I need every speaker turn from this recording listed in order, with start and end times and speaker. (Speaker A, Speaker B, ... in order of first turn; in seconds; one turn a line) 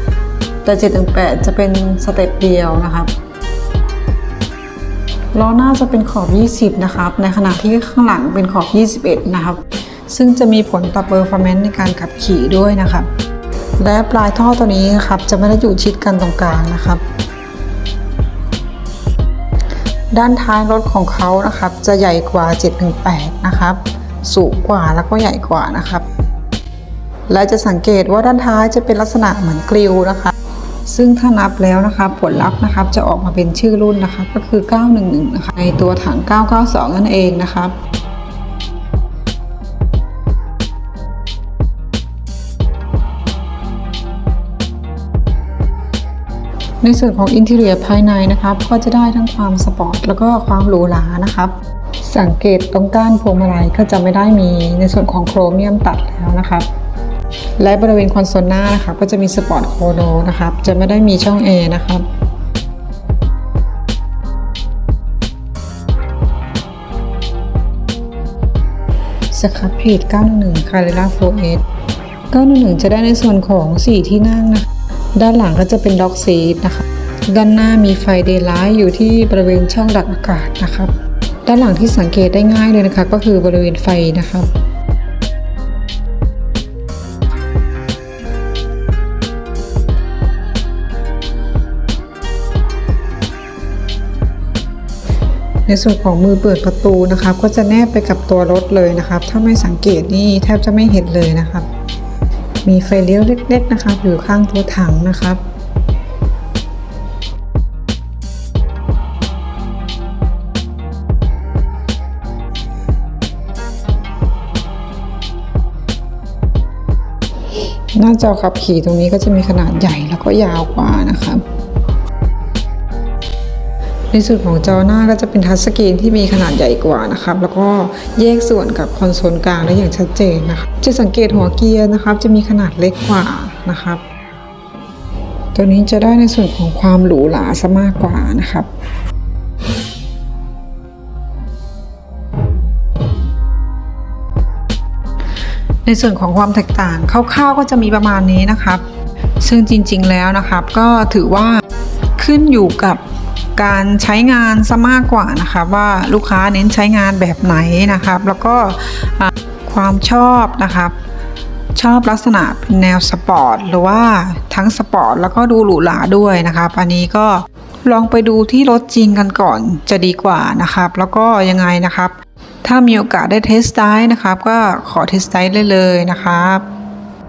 Speaker A: 0.6-3.1
Speaker A: 5.3-13.1
Speaker A: 13.8-17.0
Speaker A: 20.1-26.1
Speaker A: 27.3-30.3
Speaker A: 30.9-37.8
Speaker A: 46.8-56.7
Speaker A: 57.6-62.1
Speaker A: 69.3-71.6
Speaker A: 72.3-80.9
Speaker A: 81.5-84.5
Speaker A: 95.7-101.7
Speaker A: 102.6-105.4
Speaker A: 117.9-121.4
Speaker A: 124.1-134.0
Speaker A: 135.5-138.7
Speaker A: 145.8-148.8
Speaker A: 149.4-151.6
Speaker A: 152.2-153.0
Speaker A: 153.6-161.0
Speaker A: 161.8-176.7